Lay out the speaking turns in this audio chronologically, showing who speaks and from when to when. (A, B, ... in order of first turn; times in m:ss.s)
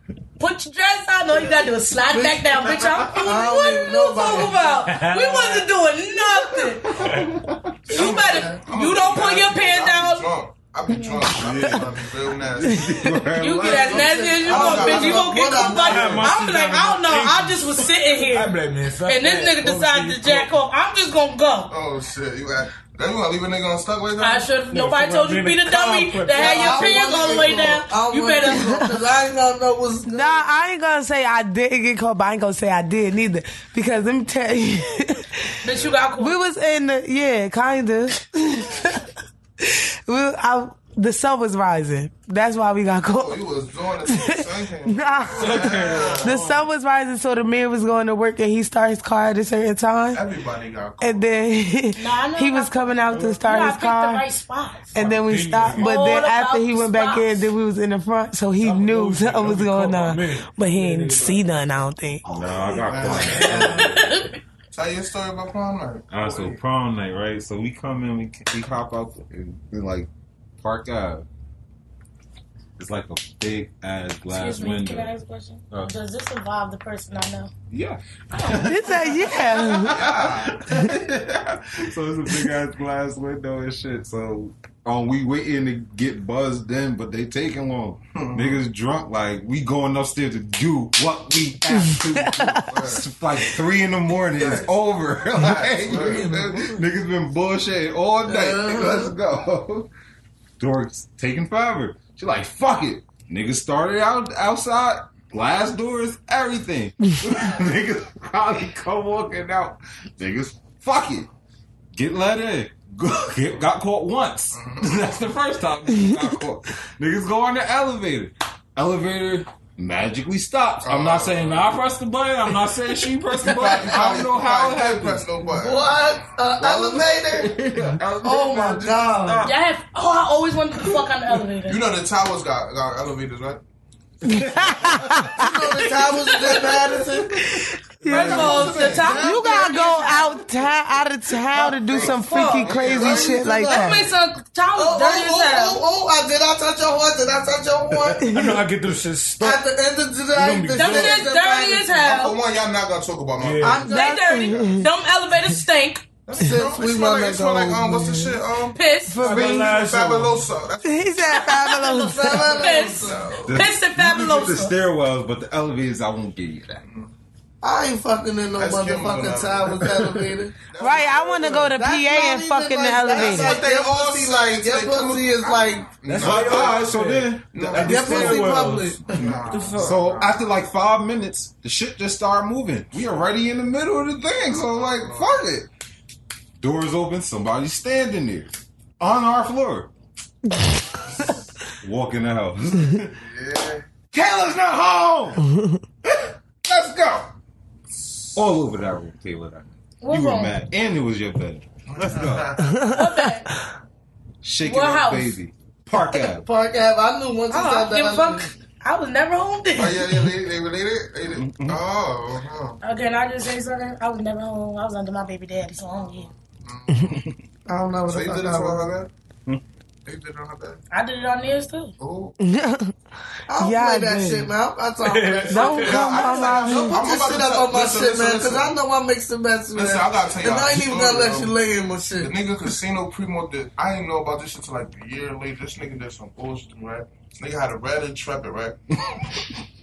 0:00.4-0:06.9 A
0:02.1-0:04.8 B
0:04.8-0:05.7 C
0:06.5-0:08.0 D
0:07.0-0:07.3 C
0:07.9-0:10.3 A
0:07.9-0:13.0 E
0:07.9-0:08.6 B
0:11.3-0:14.2 D
0:12.7-0:13.2 F
0:13.4-0:18.5 A
0:13.6-0:16.3 B
0:14.4-0:16.2 E
0:15.6-0:20.5 C
0:19.0-0:21.7 A
0:21.7-0:24.5 E
0:24.2-0:28.8 A
0:24.7-0:27.5 C
0:26.4-0:30.6 B
0:28.6-0:28.9 F
0:30.0-0:35.3 F
0:35.6-0:36.4 A
0:36.2-0:39.1 F
0:39.6-0:43.4 F
0:43.0-0:46.4 E
0:44.0-0:50.2 F
0:45.4-0:46.7 C
0:50.1-0:51.3 E
0:51.0-0:54.2 F
0:52.0-0:54.9 A
0:53.1-0:53.4 C
0:54.9-1:02.2 F
0:55.0-0:56.0 C
0:55.7-0:57.5 A
0:58.6-1:01.4 C
1:02.2-1:04.1 D
1:02.8-1:03.9 C
1:02.8-1:03.9 E
1:03.4-1:04.3 A
1:04.7-1:06.6 E
1:06.1-1:10.1 D
1:10.6-1:11.2 D
1:12.8-1:15.1 D
1:14.3-1:17.5 A
1:17.7-1:39.9 D
1:18.6-1:20.0 F
1:19.7-1:20.6 E
1:28.1-1:28.6 E
1:31.9-1:32.7 F
1:32.7-1:33.0 E
1:34.4-1:34.7 E
1:35.3-1:36.7 E
1:35.9-1:36.8 B
1:38.2-1:39.1 B
1:40.6-1:51.3 D
1:51.9-2:05.3 D
1:54.5-1:55.1 E
2:00.8-2:01.7 E
2:03.4-2:06.0 E
2:05.5-2:07.6 B
2:06.6-2:09.5 D
2:08.2-2:09.5 B
2:09.4-2:11.8 A
2:11.7-2:13.6 E
2:14.2-2:15.5 D
2:14.2-2:15.8 F
2:15.4-2:17.4 B
2:16.7-2:17.7 D
2:17.4-2:24.0 F
2:18.0-2:20.3 A
2:18.0-2:19.7 E
2:21.5-2:23.4 E
2:22.0-2:22.8 A
2:22.8-2:24.1 B
2:23.5-2:25.8 A
2:24.8-2:28.3 B
2:27.9-2:29.6 C
2:29.4-2:32.3 B
2:30.3-2:31.2 C
2:30.7-2:32.4 A
2:32.0-2:33.9 E
2:33.4-2:33.9 C
2:33.6-2:34.4 B
2:33.8-2:36.0 A
2:33.9-2:34.9 F
2:34.5-2:34.8 E
2:36.2-2:41.6 E
2:36.4-2:38.4 B
2:38.7-2:39.3 A
2:39.1-2:39.8 F
2:39.2-2:40.5 C
2:40.8-2:42.8 F
2:41.6-2:43.4 B
2:42.5-2:44.7 A
2:42.9-2:43.6 E
2:43.4-2:46.8 D
2:46.8-2:47.1 E
2:47.6-2:50.6 B
2:48.6-2:50.1 E
2:50.7-2:51.7 E
2:50.8-2:53.6 F
2:51.7-2:56.0 B
2:53.1-2:57.0 E
2:56.0-3:00.0 C
2:56.2-2:57.8 D
2:57.5-3:00.4 E
2:57.8-2:59.5 B
2:59.8-3:05.7 D
3:04.5-3:05.4 E
3:06.6-3:09.9 D
3:11.8-3:13.1 D
3:13.1-3:13.8 E
3:14.1-3:15.4 D
3:16.0-3:17.3 D
3:18.3-3:22.6 D
3:20.0-3:20.6 A
3:21.9-3:22.8 E
3:22.7-3:23.2 F
3:22.9-3:23.5 A
3:24.4-3:26.4 D
3:24.6-3:25.4 A
3:26.3-3:28.5 B
3:27.5-3:30.0 A
3:29.8-3:32.8 E
3:31.3-3:31.8 D
3:32.8-3:36.3 A
3:36.0-3:37.3 E
3:37.7-3:38.9 B
3:38.1-3:39.1 E
3:40.0-3:40.8 E
3:40.9-3:41.9 A
3:42.0-3:42.4 E
3:42.4-3:42.9 F
3:43.5-3:52.3 B
3:43.6-3:44.5 F
3:45.0-3:46.1 C
3:45.5-3:47.0 F
3:45.6-3:48.7 E
3:49.7-3:51.5 E
3:52.2-3:58.8 E